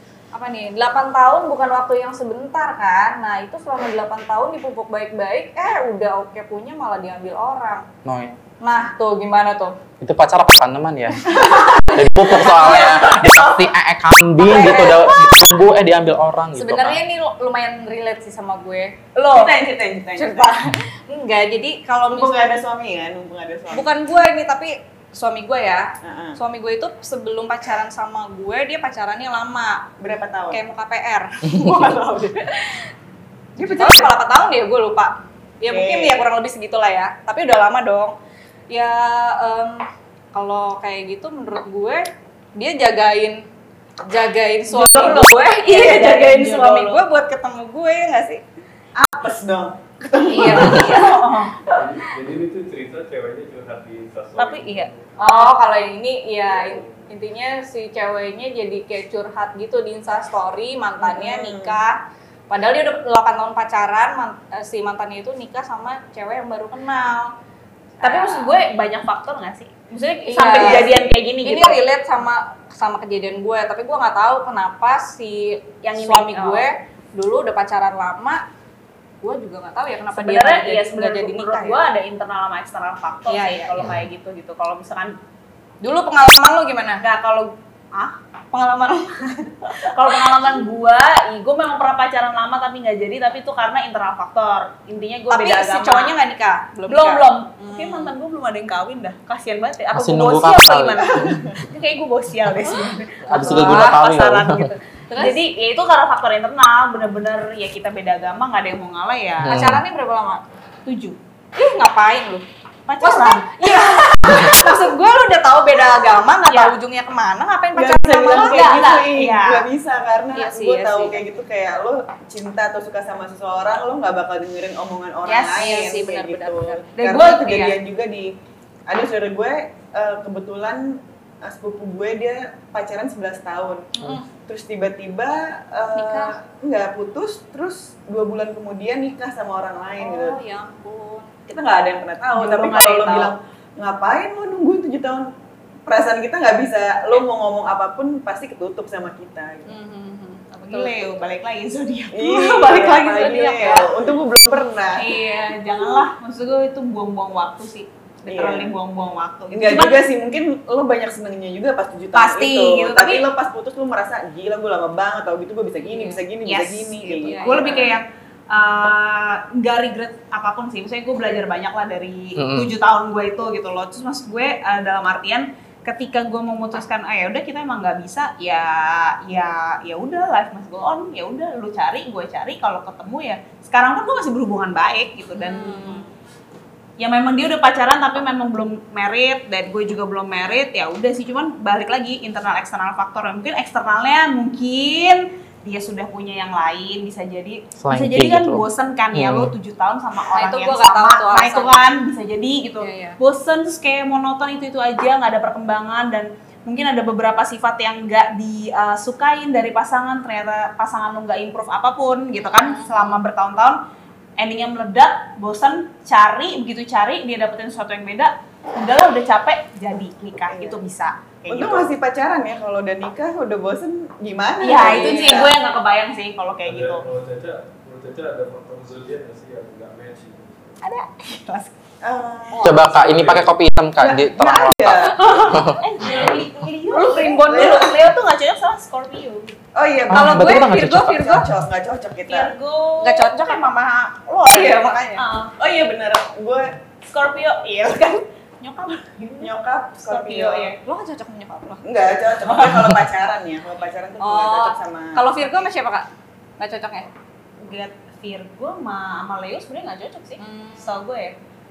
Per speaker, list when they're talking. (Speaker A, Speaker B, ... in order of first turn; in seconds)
Speaker A: 0.3-7.8, 8.6-9.8, 12.4-12.9, 14.4-15.5, 16.6-19.0, 20.2-22.5, 23.7-25.8, 26.4-29.8, 30.5-32.9, 33.6-38.1, 38.7-43.4, 44.1-48.4, 50.2-51.2, 54.4-62.0, 62.5-67.3, 68.0-68.6, 70.3-78.4, 79.2-81.8, 83.3-83.9, 85.8-87.0, 88.5-89.5, 95.3-98.1, 103.3-104.1, 105.1-105.3, 109.5-110.4, 111.6-112.5, 113.0-118.7, 120.3-121.4, 125.5-126.9, 134.0-134.3, 135.9-136.3, 140.0-141.3, 142.4-143.2, 149.7-151.0, 152.2-153.9, 165.9-166.2, 167.1-168.0, 185.3-186.1, 200.3-202.0, 202.8-203.2, 212.4-213.2, 224.8-225.5, 236.9-237.4, 240.1-241.4, 243.0-245.2, 250.8-251.8, 254.2-256.1, 256.6-257.1, 260.4-261.0
Speaker B: 8.1-8.4, 10.0-17.0, 99.9-101.5, 103.3-104.7, 109.4-109.8, 172.4-172.7, 197.8-199.5, 232.6-235.8, 240.1-241.5
Speaker C: 19.2-19.6, 33.6-34.1, 44.7-47.0, 50.4-51.6, 55.2-55.5, 68.0-71.8, 75.8-76.7, 80.1-85.2, 87.0-88.2, 89.8-96.2, 96.9-109.5, 110.9-111.2, 112.9-113.8, 116.5-116.8, 118.3-119.7, 125.3-125.8, 127.0-127.8, 142.5-143.3, 150.5-152.7, 154.9-160.1, 162.1-163.3, 166.4-186.0, 187.0-213.8, 214.4-221.9, 224.6-227.1, 230.8-231.7, 235.2-239.6, 242.3-243.5, 244.5-245.6, 247.1-249.5, 250.1-250.8, 257.6-261.4
Speaker D: 19.3-20.7, 22.1-23.9, 26.0-26.4, 30.0-30.6, 35.7-36.2, 49.0-51.0, 61.0-61.8, 117.8-128.3, 128.9-140.4, 141.5-145.3, 145.9-149.8, 152.1-155.2, 158.3-158.8, 159.5-167.9, 220.5-220.8, 221.5-225.6, 232.0-232.7, 234.0-235.3, 237.3-237.9, 239.7-242.5, 245.6-246.8, 249.4-250.7, 251.8-255.2
Speaker E: 51.8-55.1, 56.4-57.0, 226.6-230.8, 232.9-233.5